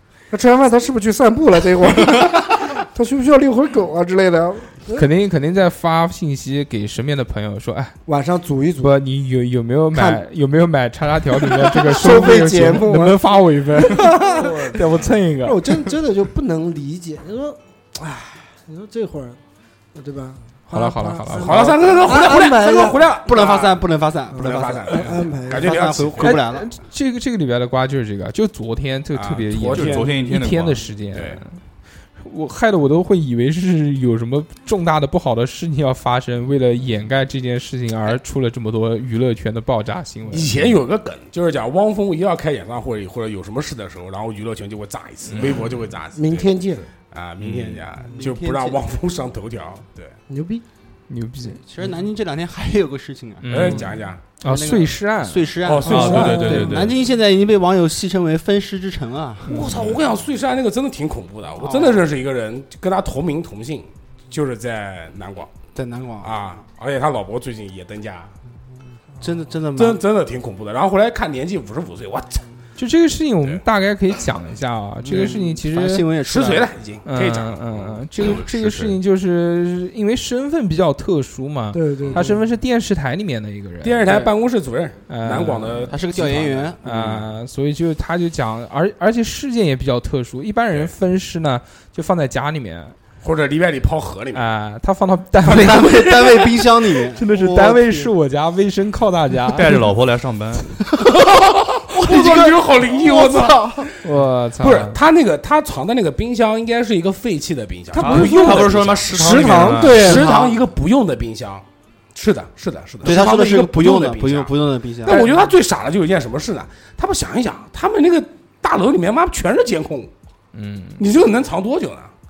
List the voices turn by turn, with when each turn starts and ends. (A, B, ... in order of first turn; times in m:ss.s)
0:00.3-0:05.1 A
0:04.9-0:08.0 B
0:08.1-0:09.0 A
0:08.8-0:15.8 B
0:09.9-0:10.2 A
0:11.5-0:14.8 A
0:14.2-0:15.0 C
0:15.4-0:19.4 A
0:20.0-0:23.0 A
0:20.7-0:21.8 B
0:21.3-0:23.8 C
0:23.3-0:26.7 D
0:24.3-0:26.4 C
0:24.4-0:25.9 A
0:26.2-0:31.6 B
0:29.1-0:30.2 C
0:29.7-0:30.9 E
0:31.1-0:31.4 C
0:32.2-0:40.7 B
0:40.3-0:50.2 C
0:45.4-0:45.6 B
0:46.2-0:46.9 A
0:47.4-0:47.8 E
0:48.1-0:48.8 D
0:50.3-0:50.6 A
0:51.1-0:51.6 B
0:51.6-0:53.9 D
0:53.4-0:57.0 B
0:53.5-0:54.2 C
0:54.4-0:59.7 D
0:55.6-0:56.9 C
0:55.9-0:56.8 E
0:59.5-0:59.8 B
0:59.5-1:05.5 C
1:01.6-1:02.1 D
1:05.8-1:06.3 D
1:06.2-1:08.3 C
1:09.2-1:10.0 D
1:09.8-1:12.5 C
1:12.8-1:16.1 B
1:15.0-1:16.7 D
1:16.2-1:18.2 C
1:17.0-1:24.3 B
1:21.7-1:22.4 A
1:23.8-1:27.1 C
1:25.1-1:33.0 B
1:25.9-1:26.8 D
1:33.2-1:34.4 C
1:34.3-1:36.4 B
1:35.4-1:38.1 D
1:37.1-1:39.9 B
1:39.5-1:40.8 E
1:41.3-1:43.8 C
1:41.8-1:43.9 D
1:44.0-1:45.0 B
1:44.6-1:54.5 C
1:47.9-1:50.3 A
1:48.0-1:50.2 E
1:49.9-1:50.6 D
1:53.0-1:55.3 D
1:55.1-2:00.1 C
1:55.1-1:55.5 B
2:00.5-2:01.0 B
2:01.0-2:02.1 C